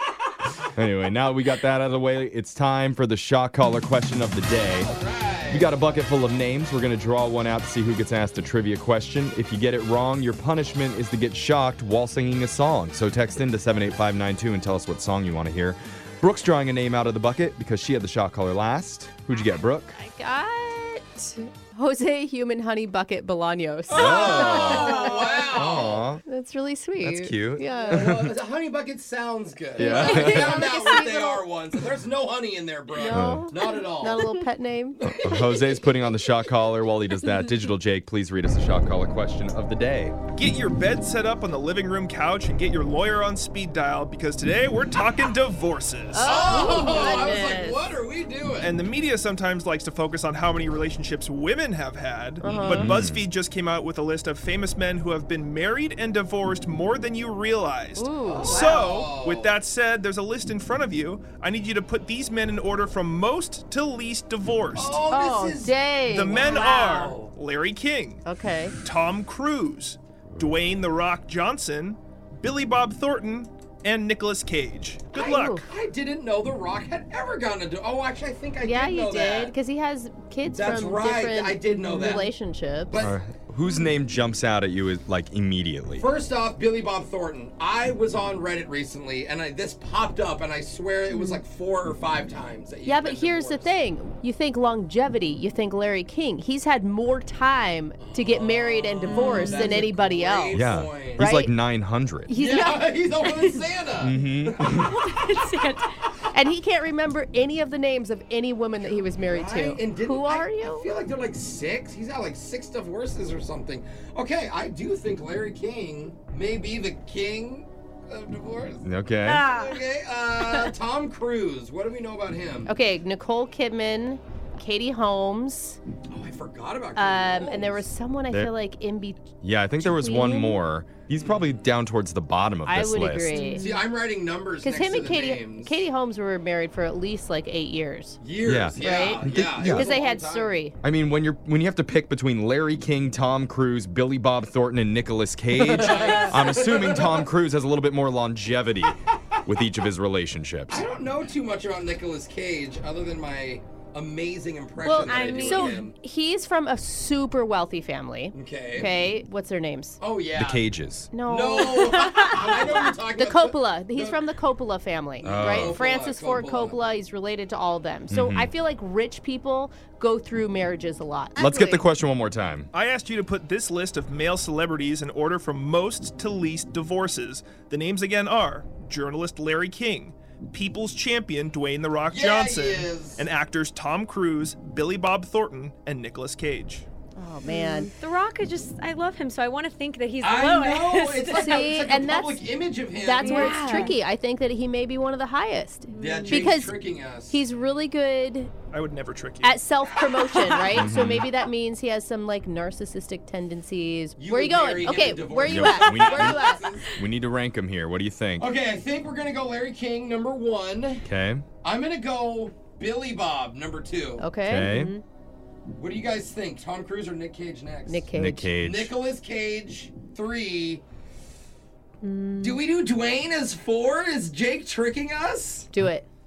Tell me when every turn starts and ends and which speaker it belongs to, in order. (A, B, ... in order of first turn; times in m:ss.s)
0:00.8-0:04.9 A
0:04.8-0:05.7 B
0:05.5-0:20.0 A
0:20.0-0:28.2 C
0:23.9-0:26.0 B
0:23.9-0:26.2 A
0:27.0-0:28.3 A
0:27.8-0:34.3 B
0:29.8-0:31.5 C
0:29.8-0:30.6 A
0:32.9-0:35.0 C
0:33.1-0:33.5 A
0:35.0-0:35.9 B
0:35.1-0:40.2 A
0:40.3-0:47.2 D
0:46.1-0:47.8 C
0:46.2-0:48.8 B
0:48.6-1:05.0 D
0:52.4-0:52.8 B
0:52.4-0:52.9 C
0:52.7-0:53.2 A
0:58.0-0:58.8 C
0:58.2-0:59.6 B
1:04.7-1:05.8 B
1:05.1-1:06.9 C
1:06.1-1:08.2 D
1:06.3-1:07.3 B
1:08.2-1:08.8 C
1:08.8-1:15.6 D
1:15.2-1:15.6 C
1:15.2-1:19.5 B
1:18.6-1:23.0 C
1:20.4-1:22.3 B
1:21.8-1:22.2 E
1:22.9-1:23.2 B
1:23.0-1:26.0 A
1:25.9-1:33.7 B
1:32.8-1:40.6 C
1:38.0-1:41.3 B
1:39.0-1:39.8 E
1:40.5-1:42.3 A
1:41.2-1:41.5 C
1:42.3-1:43.6 C
1:42.4-1:44.9 B
1:44.0-1:44.9 A
1:44.6-1:46.1 E
1:46.3-1:50.9 C
1:49.2-2:02.7 B
1:58.8-1:59.5 A
1:59.3-1:59.8 E
2:02.6-2:05.8 C
2:06.1-2:07.9 B
2:07.0-2:10.6 C
2:09.4-2:13.3 A
2:12.6-2:13.6 C
2:13.3-2:13.9 E
2:13.6-2:15.8 B
2:14.6-2:18.2 C
2:18.2-2:20.6 B
2:18.4-2:19.9 A
2:18.8-2:20.8 C
2:20.8-2:30.8 A
2:25.6-2:26.2 C
2:25.8-2:27.3 B
2:30.7-2:35.9 B
2:34.8-2:40.0 C
2:34.9-2:35.9 E
2:38.3-2:38.9 B
2:40.0-2:40.6 B
2:40.4-2:41.1 A
2:41.1-2:42.6 C
2:41.2-2:44.2 B
2:41.8-2:42.9 E
2:43.1-2:51.9 C
2:45.2-2:46.8 B
2:45.2-2:45.8 A
2:48.1-2:48.5 A
2:51.4-2:52.7 A
2:52.7-3:06.9 D
3:02.1-3:03.2 B
3:07.2-3:07.9 C
3:07.4-3:11.8 E
3:10.2-3:13.7 B
3:11.4-3:18.5 C
3:13.2-3:14.0 E
3:15.9-3:16.6 E
3:16.0-3:17.4 B
3:18.7-3:19.6 D
3:19.4-3:26.7 C
3:20.2-3:20.6 E
3:20.7-3:21.3 A
3:24.2-3:26.9 B
3:25.4-3:28.5 A
3:26.3-3:26.6 E
3:28.4-3:31.1 B
3:31.0-3:31.4 A
3:31.6-3:34.2 B
3:34.2-3:34.7 C
3:34.4-3:34.9 A
3:34.5-3:35.0 E
3:35.7-3:40.8 B
3:37.9-3:38.5 C
3:38.1-3:38.9 A
3:42.0-3:42.6 E
3:42.4-3:45.7 B
3:45.7-3:46.1 C